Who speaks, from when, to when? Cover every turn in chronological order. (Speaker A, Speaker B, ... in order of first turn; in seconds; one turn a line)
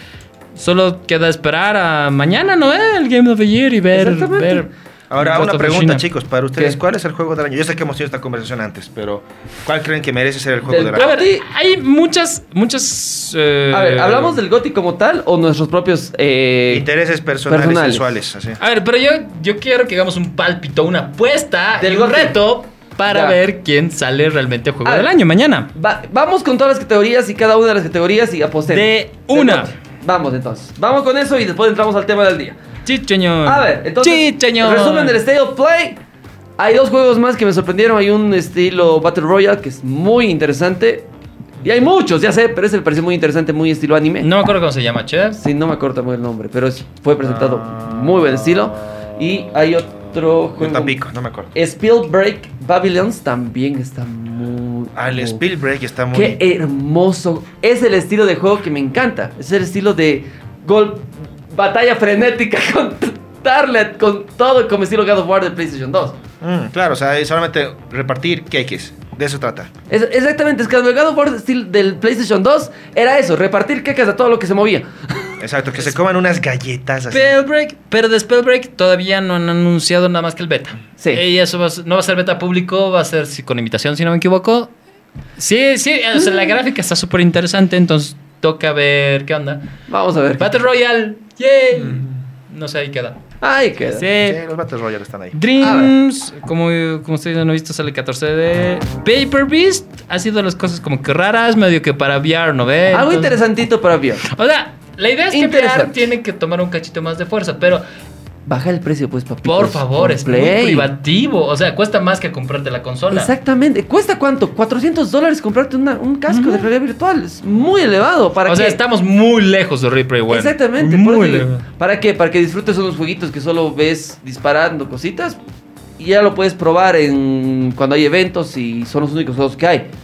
Speaker A: 0.5-6.0
Speaker B: 3.9-4.7
Speaker C: 5.1-11.1
Speaker B: 10.7-11.4
Speaker A: 10.9-14.4
Speaker B: 13.7-16.9
Speaker C: 16.7-18.6
Speaker B: 17.5-18.1
Speaker A: 18.6-25.7
Speaker B: 21.8-22.4
Speaker B: 23.1-23.4
Speaker B: 25.7-32.6
Speaker A: 28.7-29.7
Speaker A: 32.9-35.2
Speaker B: 33.4-36.0
Speaker B: 36.6-41.1
Speaker B: 41.6-44.3
Speaker A: 44.2-45.4
Speaker B: 45.4-51.0
Speaker C: 47.2-48.7
Speaker C: 50.6-51.5
Speaker B: 51.5-55.4
Speaker C: 54.9-56.4
Speaker B: 56.1-66.2
Speaker C: 66.4-69.7
Speaker B: 69.9-75.4
Speaker C: 75.4-77.3
Speaker A: 77.1-84.7
Speaker A: 85.4-89.7
Speaker B: 89.9-90.6
Speaker A: 90.4-93.2
Speaker C: 91.8-92.1
Speaker B: 93.4-94.1
Speaker A: 93.9-94.4
Speaker C: 94.2-95.3
Speaker A: 95.3-103.4
Speaker B: 95.6-95.9
Speaker B: 102.9-104.2
Speaker A: 104.2-107.8
Speaker B: 105.3-106.1
Speaker B: 108.5-110.9
Speaker A: 109.4-113.3
Speaker B: 113.1-118.8
Speaker A: 116.3-116.7
Speaker A: 118.5-121.6
Speaker B: 120.3-125.4
Speaker B: 126.0-129.9